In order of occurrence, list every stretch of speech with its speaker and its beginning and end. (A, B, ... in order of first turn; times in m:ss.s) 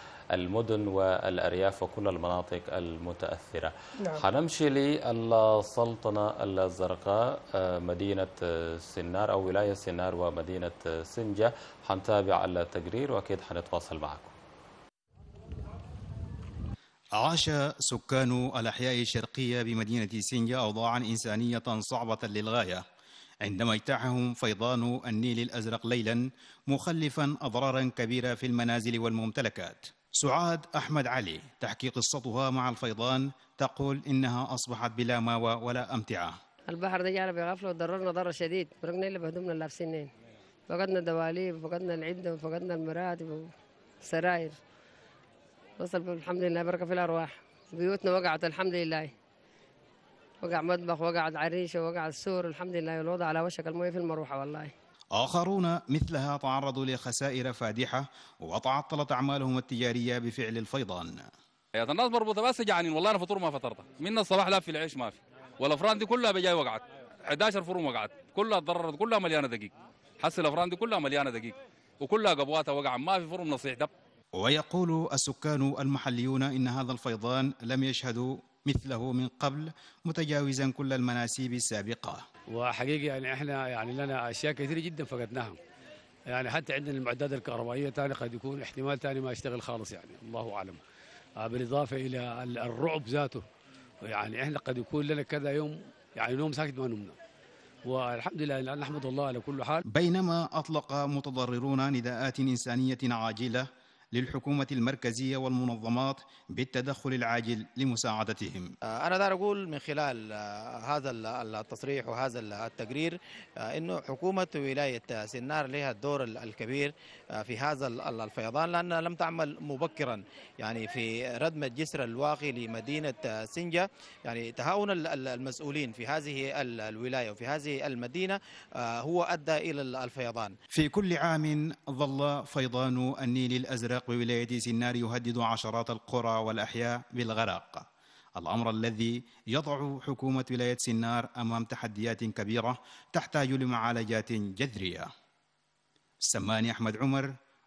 0:00.3-0:14.3 A
0:17.2-0:22.8 B
0:23.4-0:36.3 B
0:36.7-0:40.1 C
0:40.7-0:44.6 C
0:45.8-0:49.1 C
0:50.4-0:54.7 C
0:55.1-1:01.3 B
1:01.8-1:13.9 D
1:14.4-1:22.2 B
1:22.5-1:25.6 E
1:26.3-1:30.8 E
1:31.4-1:33.4 E
1:34.0-1:37.2 E
1:37.8-1:39.8 E
1:39.9-1:48.7 B
1:48.9-2:10.5 F
2:10.7-2:17.8 B
2:18.4-2:25.1 B
2:26.2-2:27.3 B